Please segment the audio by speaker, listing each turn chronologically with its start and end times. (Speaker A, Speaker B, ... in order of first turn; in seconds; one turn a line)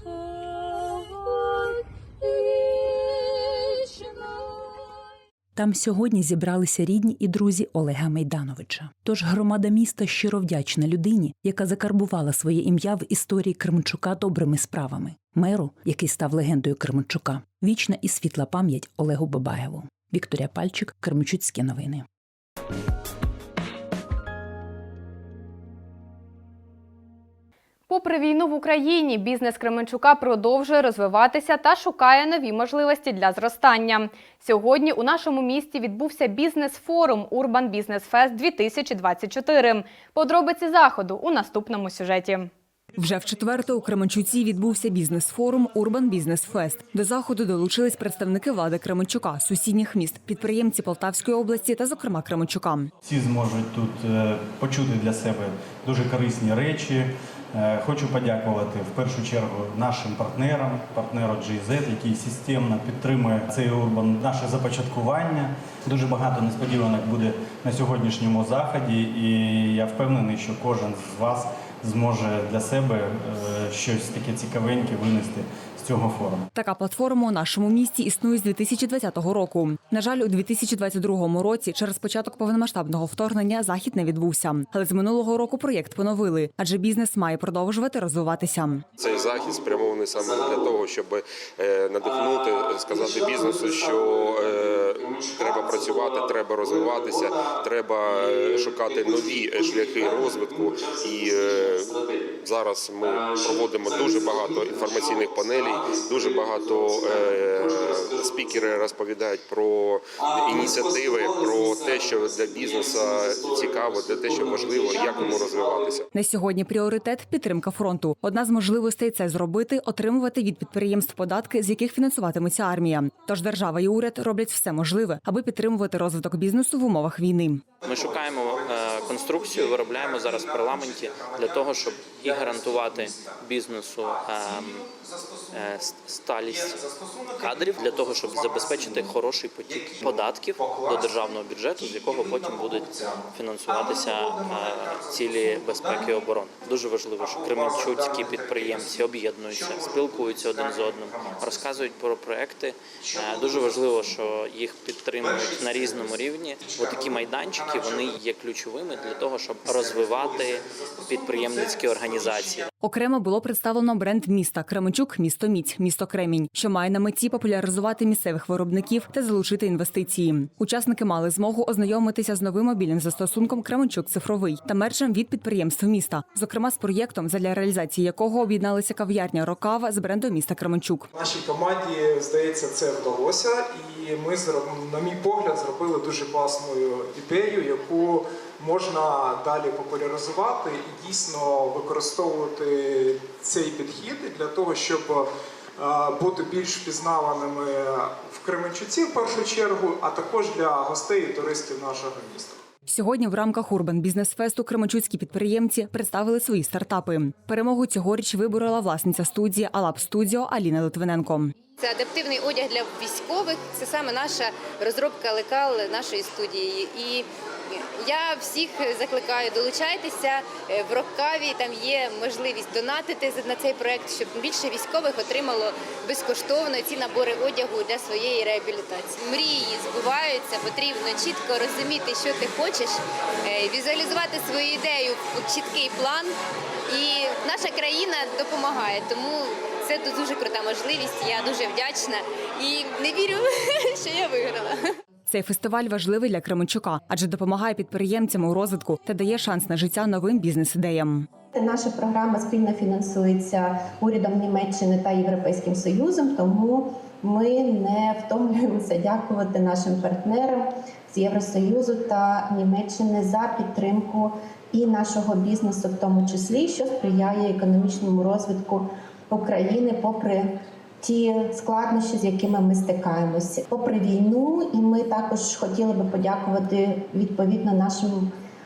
Speaker A: 5.5-22.1
Speaker B: 27.9-42.5
Speaker C: 43.0-52.9
Speaker D: 53.0-76.5
Speaker C: 76.6-88.8
Speaker E: 89.0-116.1
Speaker C: 116.2-127.6
Speaker F: 127.8-134.9
Speaker F: 135.5-136.9
Speaker F: 137.4-162.7
Speaker C: 162.9-181.0
Speaker G: 181.1-202.6
Speaker C: 202.9-211.5
Speaker H: 211.8-236.3
Speaker H: 236.9-244.9
Speaker C: 245.3-251.2
Speaker I: 251.5-270.5
Speaker I: 271.0-278.3